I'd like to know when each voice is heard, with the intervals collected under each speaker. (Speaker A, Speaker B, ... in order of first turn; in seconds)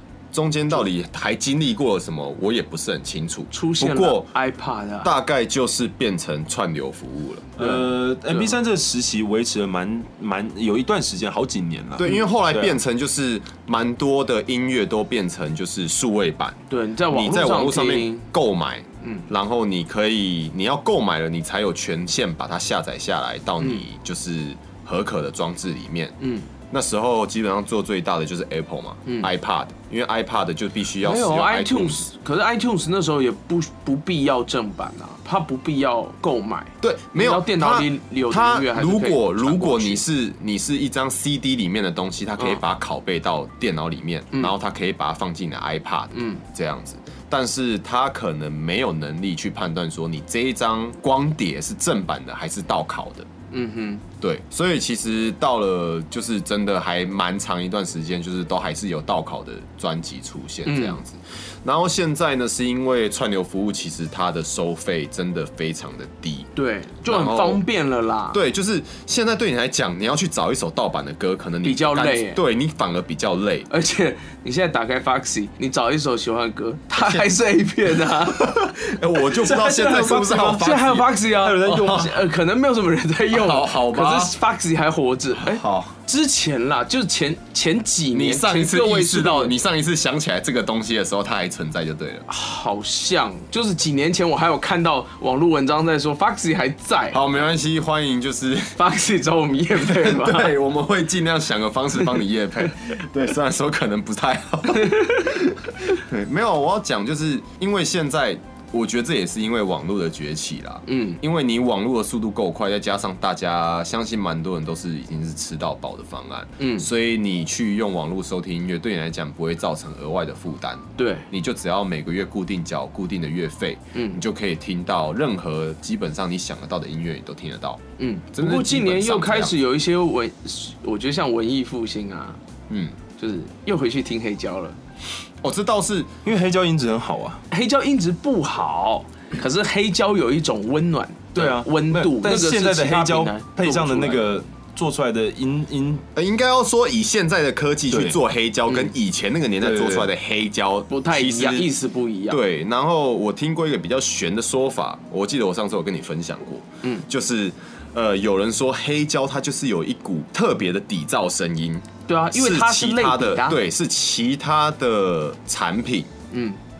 Speaker A: 0.3-4.3, 5.0-7.5, 12.0-16.6, 17.1-26.2, 26.7-32.0, 36.8-53.3, 54.2-66.5, 67.0-67.6, 68.3-73.7, 78.3-81.1, 81.7-82.1, 83.3-84.3, 85.4-85.9, 88.1-92.2, 97.1-98.8, 99.7-127.8, 128.3-129.6, 132.7-132.9, 135.4-136.1, 146.1-151.7, 152.3-166.1
Speaker B: 3.5-5.1, 7.6-8.5, 16.7-18.3, 19.0-19.3, 26.2-26.5, 29.1-29.3, 31.0-40.0, 46.1-46.4, 53.5-54.0, 60.6-61.0, 66.5-68.4, 71.6-72.4, 73.7-78.7, 80.6-89.5, 92.3-97.2, 98.7-100.6, 104.7-105.4, 110.8-111.2, 116.6-116.9, 121.0-121.3, 123.9-124.2, 128.0-132.4, 133.2-134.8, 137.5-144.3, 150.9-152.4, 162.1-163.6, 166.3-166.6
Speaker C: 7.6-12.8, 79.3-82.1, 136.2-137.4, 141.3-146.0, 147.9-148.2, 149.6-150.1